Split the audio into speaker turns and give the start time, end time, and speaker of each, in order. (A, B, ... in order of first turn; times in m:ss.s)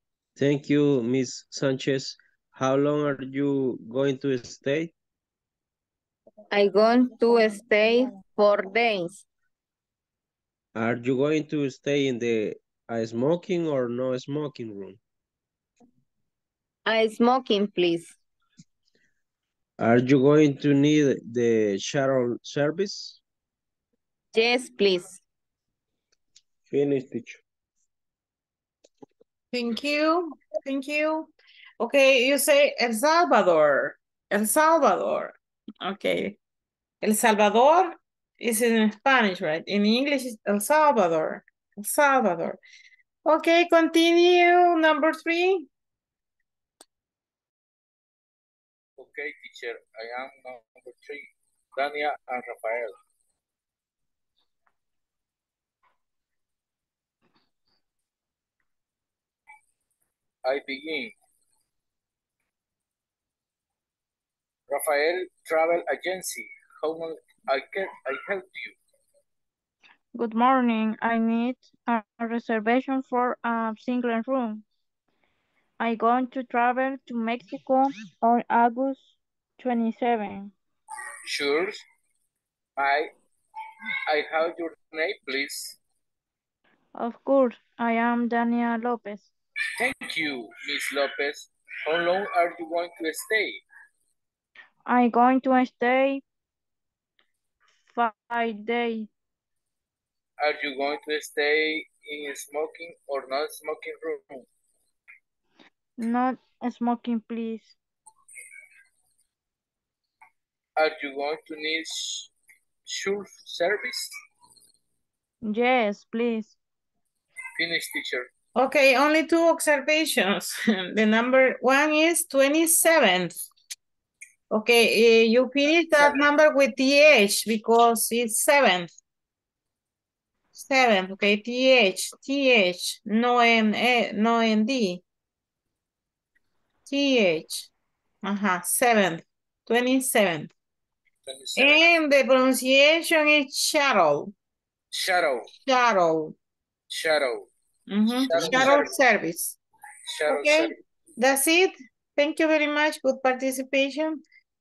0:00.4-0:04.9 A
0:06.5-0:09.2 B
0:10.8-0:15.0 A
0:16.9-0:18.1 B
0:19.8-0:23.2 A
0:24.3-0:25.2 B
0:26.7-0:27.4 A
0:29.5-0:36.4 C
0:37.0-0:42.6 C
0:43.2-0:45.7 C
0:49.0-0:53.0 D
1:00.4-1:01.1 D
1:04.7-1:08.8 D
1:10.1-1:14.6 E
1:15.8-1:20.5 E
1:21.3-1:21.8 D
1:22.8-1:23.1 D
1:24.1-1:25.8 D
1:27.0-1:29.3 E
1:29.8-1:33.6 D
1:34.9-1:36.2 E
1:37.9-1:39.1 E
1:40.4-1:44.5 D
1:46.0-1:47.8 E
1:50.8-1:52.3 D
1:52.9-1:54.1 D
1:55.4-1:56.6 E
1:57.6-1:58.3 D
1:58.6-2:03.4 C
2:04.5-2:08.9 C
2:10.6-2:15.0 C
2:16.9-2:17.7 C
2:18.2-2:20.5 C
2:21.3-2:21.8 D
2:21.6-2:24.3 C
2:24.9-2:25.5 D
2:25.7-2:26.3 C
2:26.9-2:27.5 D
2:27.9-2:29.6 C
2:28.2-2:28.9 D
2:30.1-2:30.8 D
2:30.3-2:34.2 C